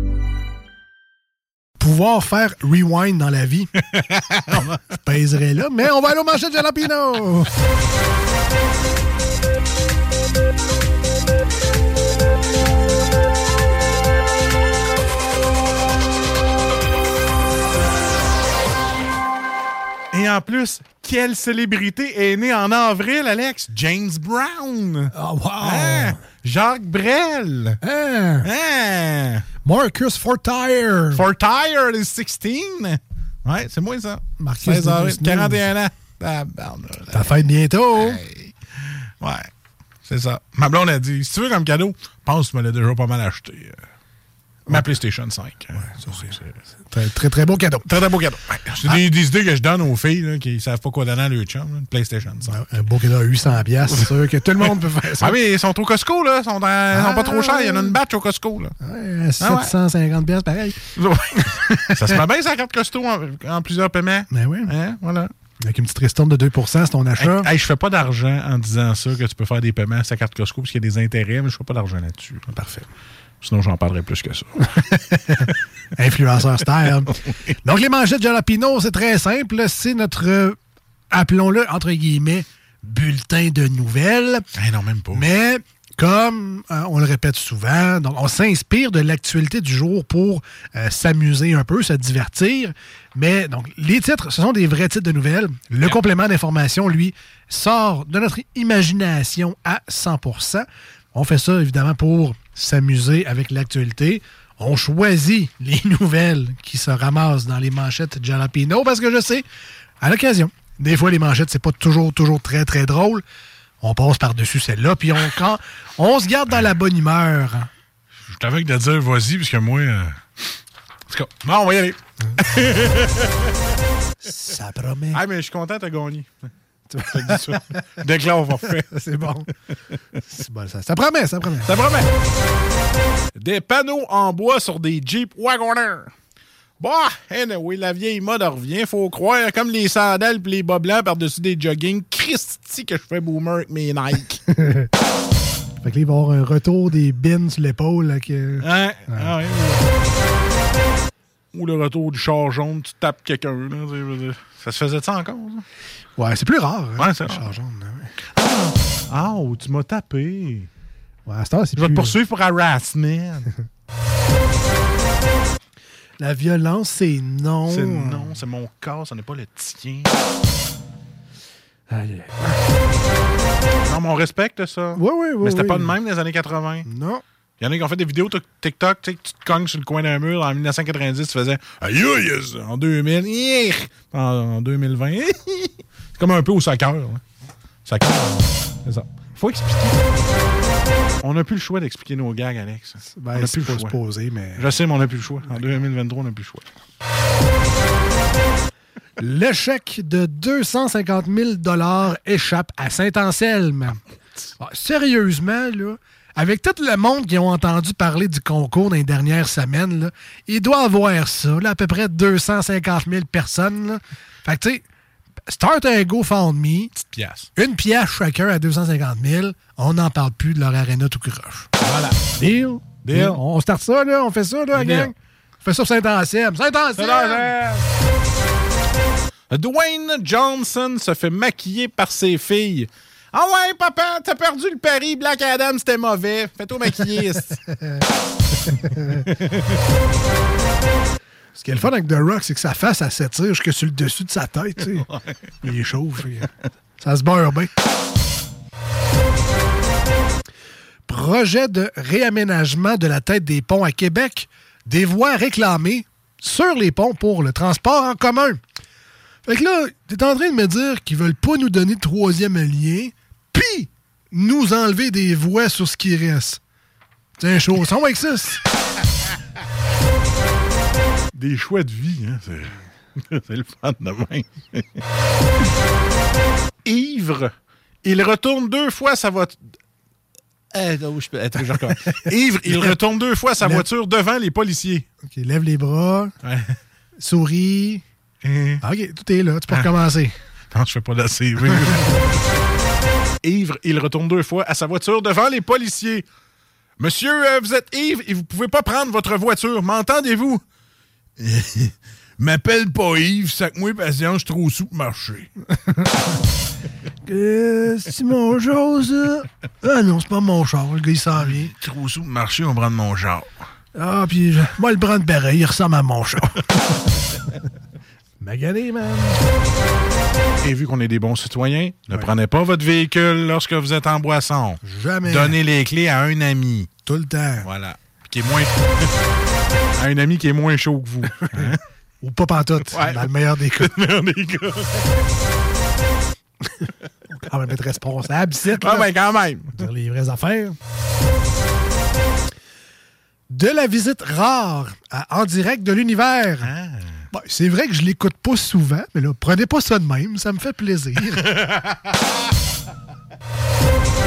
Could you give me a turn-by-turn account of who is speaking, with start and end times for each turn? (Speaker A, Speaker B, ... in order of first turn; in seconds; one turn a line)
Speaker A: 1.8-3.7
Speaker B: 3.9-4.8
Speaker A: 4.9-7.5
Speaker B: 20.1-27.8
Speaker A: 25.1-26.2
Speaker A: 27.8-28.5
Speaker B: 28.4-29.4
Speaker A: 29.6-31.3
Speaker B: 31.1-37.4
Speaker A: 34.4-35.7
Speaker A: 37.1-38.2
Speaker B: 38.0-38.5
Speaker B: 39.2-39.5
Speaker B: 40.1-43.8
Speaker B: 44.7-46.6
Speaker A: 45.8-46.3
Speaker A: 46.9-47.9
Speaker B: 47.9-52.6
Speaker A: 52.4-55.4
Speaker B: 53.9-58.7
Speaker A: 56.9-58.0
Speaker A: 58.8-62.2
Speaker B: 59.4-59.7
Speaker B: 60.9-65.3
Speaker A: 64.3-64.7
Speaker A: 65.6-67.5
Speaker B: 67.2-72.8
Speaker B: 73.4-75.5
Speaker A: 75.1-80.6
Speaker A: 81.1-84.5
Speaker B: 84.5-85.3
Speaker A: 85.1-109.5
Speaker A: 110.0-113.2
Speaker A: 113.8-117.7
Speaker B: 118.3-120.2
Speaker B: 121.1-123.6
Speaker A: 124.2-125.2
Speaker B: 125.1-126.3
Speaker A: 126.9-128.0
Speaker B: 127.1-128.9
Speaker A: 128.5-129.5
Speaker A: 130.3-131.7
Speaker B: 131.6-132.1
Speaker B: 133.3-136.1
Speaker B: 136.8-144.4
Speaker A: 144.5-144.9
Speaker A: 145.8-149.4
Speaker B: 148.6-149.8
Speaker B: 151.5-155.7
Speaker A: 156.2-158.1
Speaker B: 157.0-157.5
Speaker B: 158.4-160.7
Speaker A: 161.2-162.2
Speaker B: 161.8-163.5
Speaker A: 166.2-168.4
Speaker B: 167.7-170.2
Speaker A: 171.9-172.6
Speaker B: 173.8-176.9
Speaker A: 174.9-176.0
Speaker A: 176.8-177.2
Speaker B: 177.6-187.2
Speaker B: 187.9-190.0
Speaker B: 191.2-194.0
Speaker A: 193.1-194.7
Speaker B: 194.6-196.7
Speaker A: 199.2-204.0
Speaker A: 204.6-214.8
Speaker A: 215.5-216.9
Speaker B: 216.9-217.5
Speaker A: 217.6-221.7
Speaker B: 221.8-222.2
Speaker A: 222.4-227.6
Speaker B: 223.0-223.4
Speaker B: 224.7-225.1
Speaker B: 227.0-227.9
Speaker B: 229.5-237.6
Speaker A: 237.7-238.0
Speaker A: 238.7-239.2
Speaker B: 239.1-239.6
Speaker A: 241.6-245.1
Speaker A: 245.6-247.7
Speaker A: 251.1-258.6
Speaker A: 259.4-266.6
Speaker A: 267.4-268.6
Speaker B: 271.3-275.0
Speaker B: 276.9-277.5
Speaker B: 278.0-279.6
Speaker B: 280.7-285.1
Speaker A: 283.6-283.9
Speaker A: 285.2-286.3
Speaker B: 286.4-286.8
Speaker A: 287.2-288.0
Speaker B: 288.4-288.8
Speaker A: 288.8-290.3
Speaker B: 290.7-292.4
Speaker B: 293.4-296.2
Speaker B: 297.0-300.6
Speaker B: 301.4-305.5
Speaker A: 305.9-306.3
Speaker A: 307.2-311.7
Speaker B: 311.4-313.5
Speaker A: 313.9-317.0
Speaker A: 318.4-319.4
Speaker B: 320.6-326.9
Speaker A: 324.8-325.6
Speaker A: 327.1-327.7
Speaker B: 327.6-329.1
Speaker B: 329.9-331.8
Speaker A: 331.6-333.9
Speaker B: 332.9-335.2
Speaker A: 337.3-339.1
Speaker B: 338.7-339.9
Speaker A: 339.8-340.8
Speaker A: 343.5-346.7
Speaker B: 346.6-347.2
Speaker A: 347.3-351.5
Speaker B: 351.3-352.3